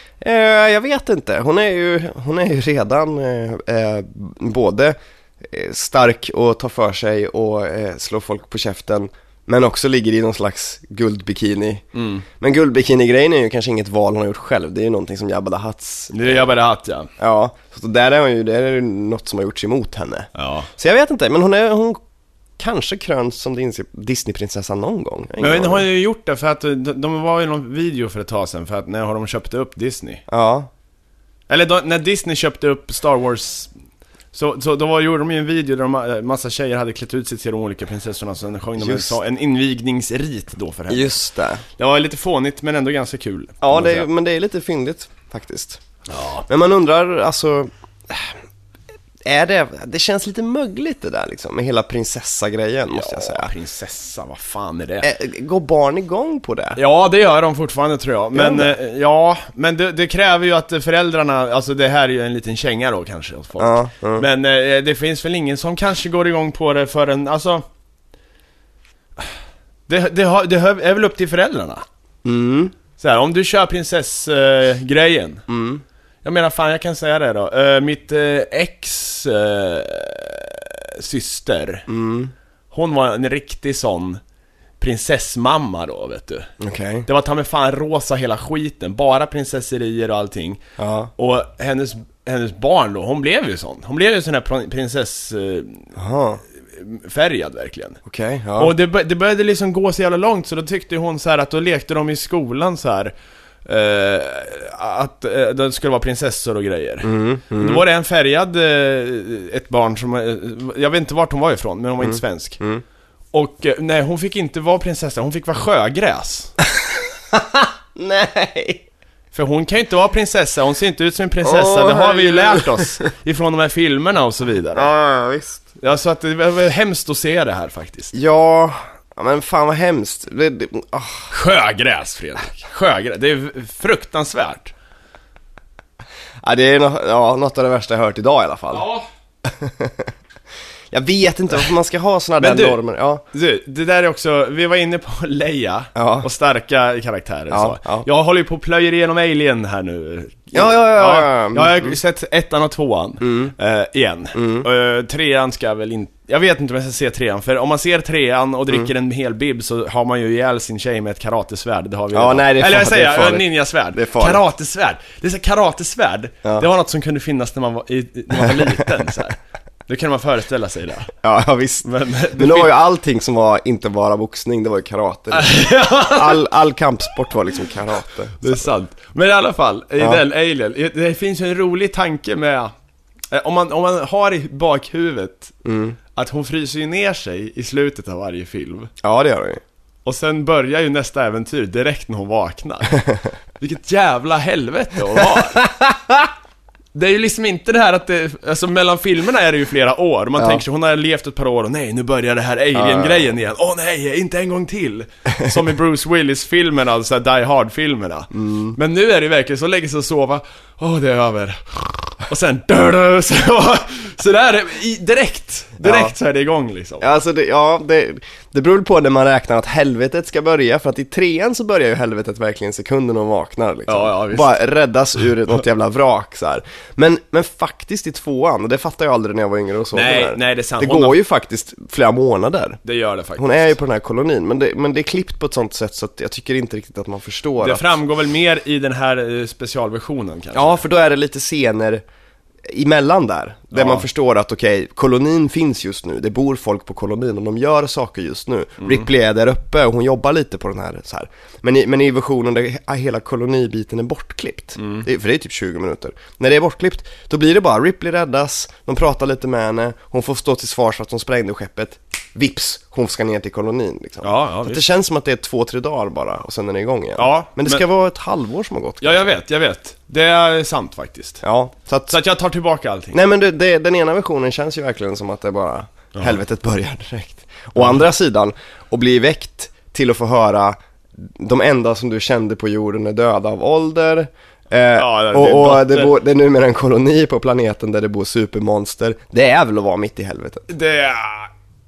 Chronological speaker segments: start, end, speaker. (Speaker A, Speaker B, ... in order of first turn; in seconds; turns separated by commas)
Speaker A: 0.2-16.4, Speaker B: 11.9-12.2, Speaker B: 16.1-17.1, Speaker A: 17.2-22.0, Speaker B: 20.4-20.7, Speaker A: 22.6-25.9, Speaker B: 25.4-30.2, Speaker A: 30.3-30.7, Speaker B: 31.5-33.7, Speaker B: 34.3-41.2, Speaker A: 38.8-39.1, Speaker A: 40.9-41.6, Speaker B: 41.8-44.1, Speaker A: 43.6-45.8, Speaker B: 46.1-46.5, Speaker A: 46.5-48.3, Speaker A: 49.2-53.5, Speaker B: 52.9-55.1, Speaker A: 55.0-56.8, Speaker B: 56.8-67.7, Speaker A: 58.3-58.7, Speaker A: 63.6-64.2, Speaker B: 69.9-71.8, Speaker A: 72.2-72.7, Speaker B: 73.0-75.4, Speaker A: 75.5-75.8, Speaker B: 76.2-81.9, Speaker A: 81.9-82.3, Speaker B: 82.7-84.2, Speaker B: 84.8-86.5, Speaker A: 86.6-87.1, Speaker B: 87.0-90.6, Speaker A: 90.8-91.1, Speaker B: 91.2-95.9, Speaker A: 95.9-96.4, Speaker B: 96.7-98.0, Speaker A: 98.0-98.7, Speaker B: 98.6-103.1, Speaker B: 103.6-112.6, Speaker A: 107.0-107.8, Speaker A: 112.0-112.8, Speaker B: 113.3-116.5, Speaker A: 117.3-118.8, Speaker B: 119.3-124.9, Speaker A: 121.4-122.8, Speaker A: 124.7-125.7, Speaker B: 125.8-128.1, Speaker A: 128.1-131.3, Speaker B: 131.3-134.7, Speaker A: 136.4-138.9, Speaker B: 138.7-139.1, Speaker A: 139.4-140.1, Speaker A: 140.9-143.2, Speaker B: 142.4-142.8, Speaker B: 143.3-171.1, Speaker A: 145.9-146.3, Speaker A: 147.5-148.1, Speaker A: 150.5-151.9, Speaker A: 153.2-153.5, Speaker A: 154.3-154.7, Speaker A: 162.1-164.4, Speaker A: 168.4-168.9, Speaker A: 171.2-178.7, Speaker B: 171.8-172.7, Speaker B: 175.3-176.4, Speaker B: 178.4-182.7, Speaker B: 183.3-185.6, Speaker A: 185.6-186.0, Speaker B: 186.1-188.9, Speaker A: 189.0-189.6, Speaker B: 190.0-193.0, Speaker B: 193.6-195.7, Speaker A: 195.3-196.1, Speaker B: 196.9-217.1, Speaker A: 200.4-200.6, Speaker A: 202.7-203.3, Speaker A: 208.3-208.8, Speaker A: 215.8-216.1, Speaker A: 217.0-232.8, Speaker B: 223.9-224.5, Speaker B: 229.9-231.2, Speaker B: 232.8-233.8, Speaker A: 233.4-237.9, Speaker B: 237.6-240.8, Speaker A: 240.5-242.0, Speaker A: 242.6-269.2, Speaker B: 243.7-244.1, Speaker B: 248.8-249.1, Speaker B: 254.8-255.1, Speaker B: 264.2-264.8, Speaker B: 267.2-267.8, Speaker B: 269.0-271.4, Speaker A: 271.4-272.1, Speaker B: 272.1-273.2, Speaker A: 273.1-290.7, Speaker B: 277.8-278.0, Speaker B: 284.9-286.1, Speaker B: 290.7-291.5